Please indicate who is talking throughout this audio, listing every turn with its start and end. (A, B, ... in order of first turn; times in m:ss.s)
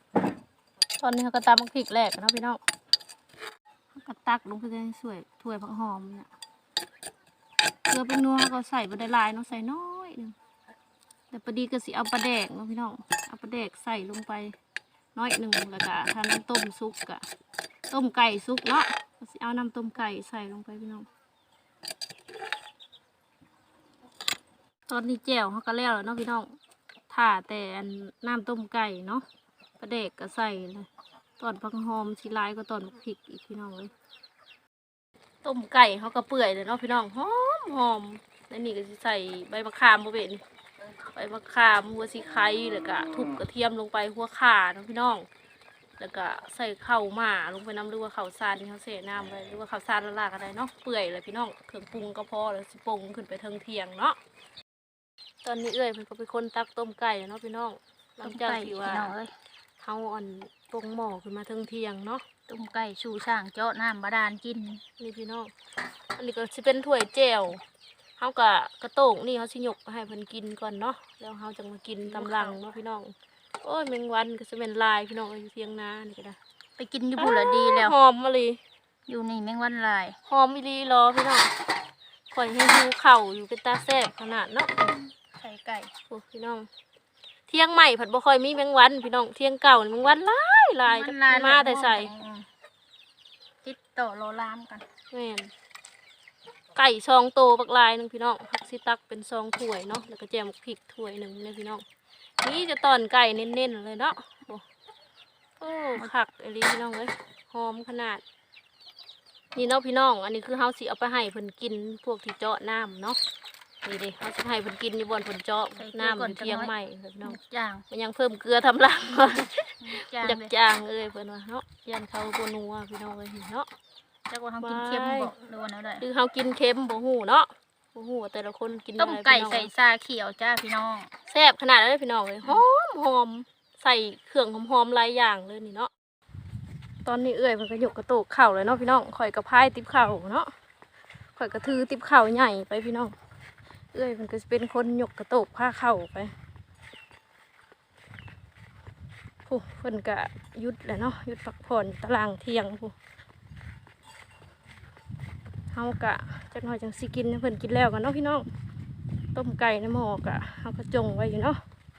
0:01.0-0:02.6 A
0:03.9-0:06.3 A
0:07.9-0:10.3 A
0:11.3-0:14.5 A
0:15.1-0:17.2 A
0:17.9-0:21.1 A
0:24.9-0:26.5 A
0:27.1-0:29.2 A
0:29.8-0:30.9 A
0:31.4-0:33.9 A
0:35.4-0:40.4 A
0:41.1-0:45.2 A
0:46.0-0:54.2 A
0:55.4-0:59.1 A
0:58.2-0:59.3 B
0:59.8-1:02.2 A
1:02.5-1:04.8 B
1:05.0-1:05.5 A
1:06.2-1:07.6 A
1:08.2-1:16.4 A
1:12.0-1:12.6 B
1:16.8-1:17.9 B
1:17.2-1:18.6 A
1:19.1-1:20.2 B
1:20.3-1:21.5 A
1:22.3-1:24.9 A
1:24.9-1:25.9 B
1:26.1-1:26.7 A
1:27.5-1:32.1 A
1:30.8-1:32.5 B
1:33.6-1:34.8 B
1:35.1-1:35.5 A
1:36.8-1:41.8 A
1:42.4-1:44.6 A
1:45.6-1:48.2 A
1:49.5-1:53.2 A
1:53.8-1:57.4 A
1:55.8-1:56.7 B
1:57.2-1:57.8 B
1:57.9-2:03.7 A
1:59.8-2:00.5 B
2:04.3-2:06.0 B
2:04.6-2:05.3 A
2:06.0-2:09.7 A
2:09.0-2:11.1 B
2:11.3-2:15.9 A
2:17.0-2:20.5 A
2:21.4-2:23.1 A
2:23.9-2:26.3 A
2:29.4-2:32.9 A
2:35.7-2:38.4 A
2:39.3-2:41.6 A